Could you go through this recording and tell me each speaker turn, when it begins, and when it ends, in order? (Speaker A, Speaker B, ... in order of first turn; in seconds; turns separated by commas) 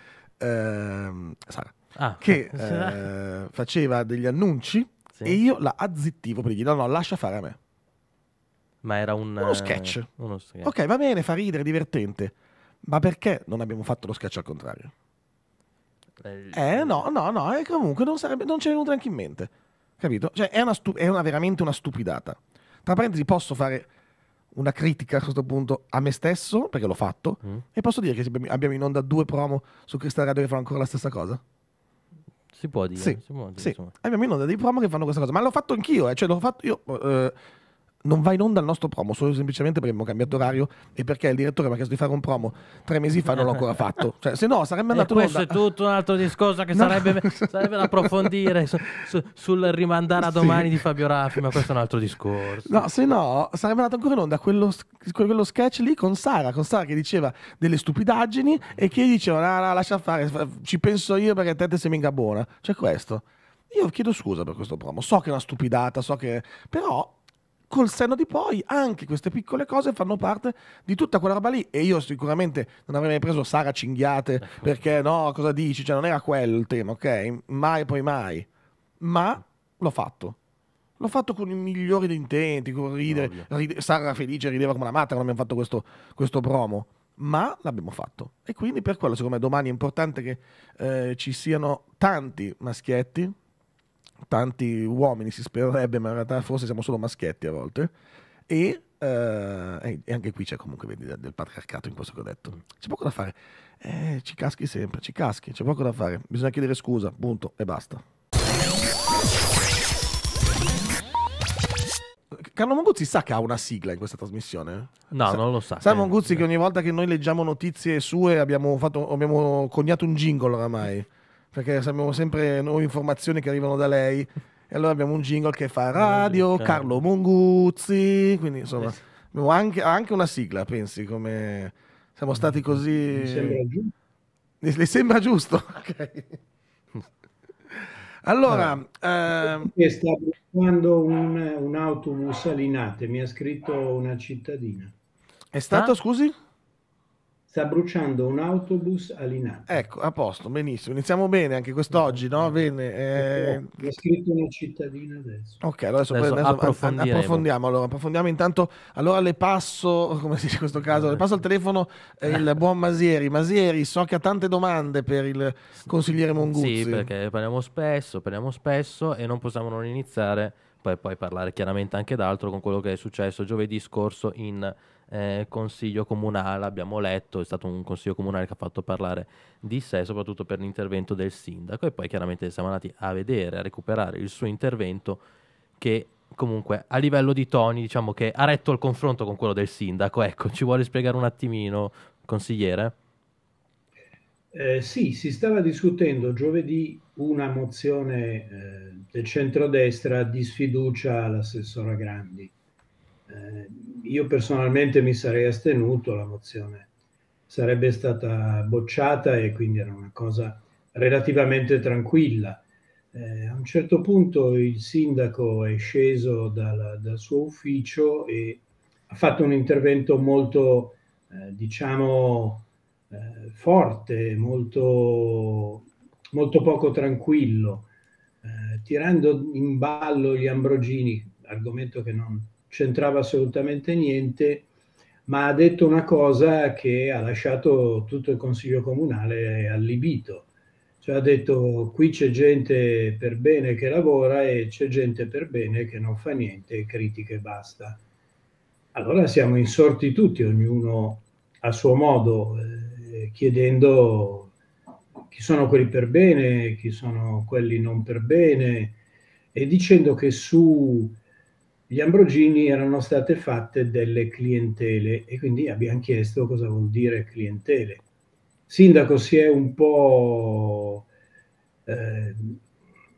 Speaker A: 0.4-7.6, Speaker B: 1.9-3.1, Speaker B: 5.1-5.4, Speaker B: 8.8-10.7, Speaker A: 9.4-10.1, Speaker A: 10.6-14.9, Speaker B: 16.2-17.0, Speaker A: 16.5-23.9, Speaker A: 24.5-31.4, Speaker B: 32.5-33.9, Speaker A: 33.0-37.4, Speaker A: 38.0-45.6, Speaker B: 44.9-52.9, Speaker A: 46.7-48.6, Speaker A: 50.2-51.6, Speaker A: 52.6-67.2, Speaker A: 67.7-78.5, Speaker B: 74.4-74.7, Speaker A: 79.0-80.4, Speaker A: 81.0-93.4, Speaker B: 83.1-83.5, Speaker A: 94.3-97.9, Speaker A: 98.5-108.0, Speaker A: 112.3-133.6, Speaker B: 115.1-116.4, Speaker B: 126.0-126.9, Speaker C: 133.1-133.9, Speaker A: 134.6-136.4, Speaker A: 137.7-139.7, Speaker B: 138.5-138.8, Speaker C: 139.4-144.9, Speaker A: 145.5-146.3, Speaker C: 147.5-149.7, Speaker A: 149.7-153.7, Speaker C: 153.2-155.6, Speaker A: 155.6-167.1, Speaker B: 156.1-157.4, Speaker B: 166.4-185.2, Speaker B: 185.8-192.9, Speaker C: 194.5-202.5, Speaker C: 203.3-206.9, Speaker C: 207.5-212.6, Speaker C: 213.1-227.9, Speaker C: 228.4-234.7, Speaker C: 235.3-240.5, Speaker C: 241.0-248.0, Speaker C: 248.9-254.5, Speaker C: 255.3-258.9, Speaker C: 259.5-261.2, Speaker C: 261.9-268.0, Speaker C: 268.7-271.0, Speaker C: 271.9-272.6